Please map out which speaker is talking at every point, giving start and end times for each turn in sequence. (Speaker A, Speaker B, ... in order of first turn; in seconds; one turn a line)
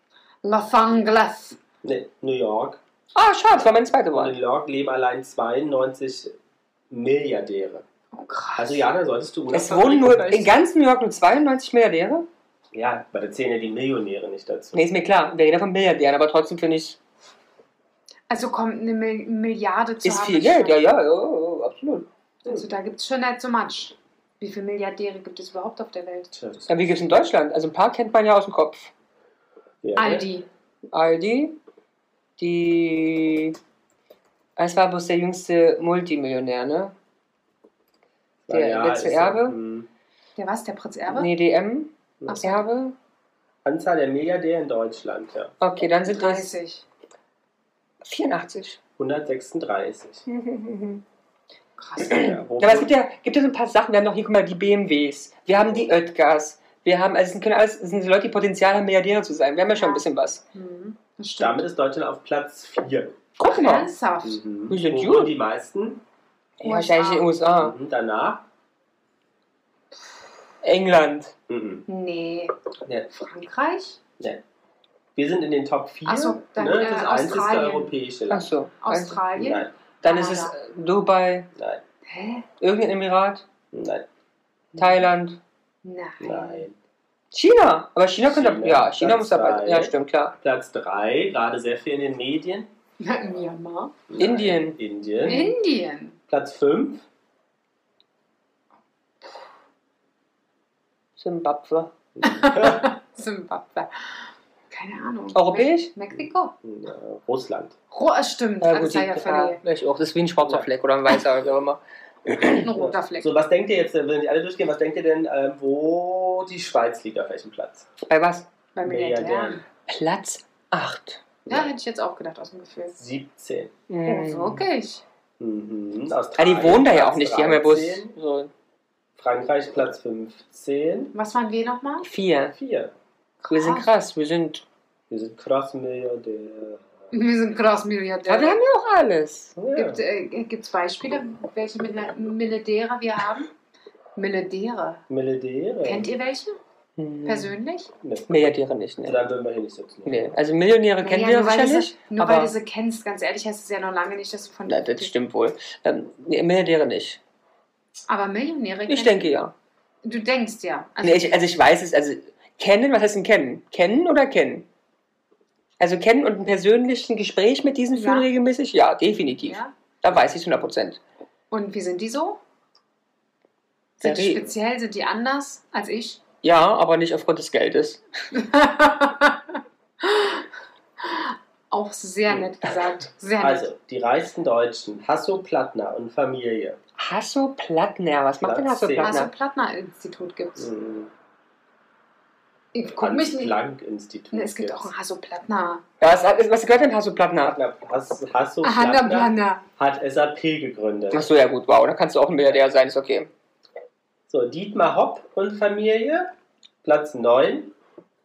Speaker A: 0.4-1.6
Speaker B: 1.8-2.8
Speaker C: 3.1-4.3
Speaker B: 4.1-6.3
Speaker B: 6.9-7.8
Speaker A: 8.1-8.8
Speaker B: 8.6-10.6
Speaker C: 9.5-12.3
Speaker B: 12.7-14.8
Speaker C: 14.7-17.0
Speaker A: 18.3-20.9
Speaker C: 20.0-22.1
Speaker A: 22.4-26.3
Speaker B: 26.3-26.9
Speaker C: 26.7-28.9
Speaker B: 29.8-30.3
Speaker A: 29.9-30.5
Speaker C: 30.9-31.6
Speaker C: 32.4-33.6
Speaker C: 34.6-36.9
Speaker B: 38.5-39.9
Speaker C: 38.5-39.5
Speaker A: 40.4-41.3
Speaker C: 41.1-43.0
Speaker A: 42.3-42.6
Speaker B: 43.6-45.5
Speaker C: 45.6-46.5
Speaker A: 46.0-46.8
Speaker C: 48.0-48.8
Speaker B: 49.0-50.2
Speaker C: 50.3-51.0
Speaker A: 51.8-52.4
Speaker C: 52.0-60.4
Speaker B: 52.1-52.9
Speaker A: 59.8-61.6
Speaker B: 61.4-63.2
Speaker C: 63.4-63.9
Speaker A: 63.4-64.4
Speaker B: 64.2-66.0
Speaker C: 64.7-65.3
Speaker C: 66.6-67.7
Speaker A: 66.6-67.3
Speaker B: 67.6-68.4
Speaker C: 70.6-71.3
Speaker B: 71.5-71.8
Speaker A: 71.9-72.5
Speaker A: 73.1-74.0
Speaker B: 75.2-78.5
Speaker A: 76.0-77.9
Speaker C: 78.3-79.2
Speaker A: 78.8-80.5
Speaker B: 79.3-79.7
Speaker C: 80.0-81.5
Speaker B: 81.5-81.8
Speaker A: 82.0-82.5
Speaker C: 82.6-83.4
Speaker B: 83.7-84.0
Speaker C: 84.8-85.4
Speaker A: 85.8-86.6
Speaker B: 86.2-86.8
Speaker C: 87.3-90.3
Speaker B: 88.2-92.7
Speaker A: 93.0-94.0
Speaker B: 94.1-95.5
Speaker C: 94.2-94.8
Speaker A: 95.2-96.2
Speaker B: 96.3-97.0
Speaker C: 101.2-101.9
Speaker B: 102.2-102.8
Speaker A: 102.2-106.5
Speaker C: 105.3-105.9
Speaker B: 106.1-107.7
Speaker A: 107.9-109.6
Speaker C: 108.6-112.7
Speaker A: 112.6-113.3
Speaker B: 112.8-117.9
Speaker C: 118.0-118.5
Speaker A: 118.7-119.6
Speaker B: 118.8-119.6
Speaker C: 119.9-121.3
Speaker A: 121.5-123.0
Speaker B: 123.0-123.7
Speaker C: 123.9-124.6
Speaker A: 124.0-125.0
Speaker B: 125.4-128.1
Speaker C: 126.4-128.5
Speaker B: 129.2-131.1
Speaker A: 131.1-132.1
Speaker C: 132.0-132.5
Speaker B: 132.5-132.9
Speaker A: 133.4-133.9
Speaker C: 133.5-134.6
Speaker B: 135.1-136.8
Speaker A: 137.1-138.6
Speaker C: 138.3-139.5
Speaker B: 139.6-140.0
Speaker A: 139.7-143.5
Speaker A: 144.2-145.0
Speaker B: 145.1-146.1
Speaker A: 145.8-146.6
Speaker C: 147.0-147.5
Speaker A: 147.2-147.9
Speaker B: 148.0-148.4
Speaker C: 148.3-149.2
Speaker B: 149.0-150.3
Speaker C: 150.1-152.5
Speaker A: 151.0-155.1
Speaker C: 154.7-157.2
Speaker A: 158.1-159.3
Speaker C: 158.9-159.5
Speaker A: 160.0-161.4
Speaker C: 161.0-164.7
Speaker C: 165.8-171.0
Speaker A: 167.9-168.3
Speaker A: 169.3-169.7
Speaker A: 171.5-172.4
Speaker A: 174.0-176.2
Speaker C: 174.0-174.5
Speaker C: 176.4-178.0
Speaker A: 178.3-179.4
Speaker A: 180.0-180.4
Speaker A: 181.0-183.7
Speaker B: 183.4-186.8
Speaker C: 187.0-189.3
Speaker B: 188.4-189.1
Speaker A: 189.0-190.7
Speaker B: 190.6-191.1
Speaker A: 192.7-193.6
Speaker B: 193.0-194.9
Speaker A: 194.3-195.8
Speaker C: 196.0-197.6
Speaker B: 197.4-201.3
Speaker A: 198.6-199.6
Speaker C: 201.1-203.3
Speaker B: 204.3-206.3
Speaker B: 206.8-207.7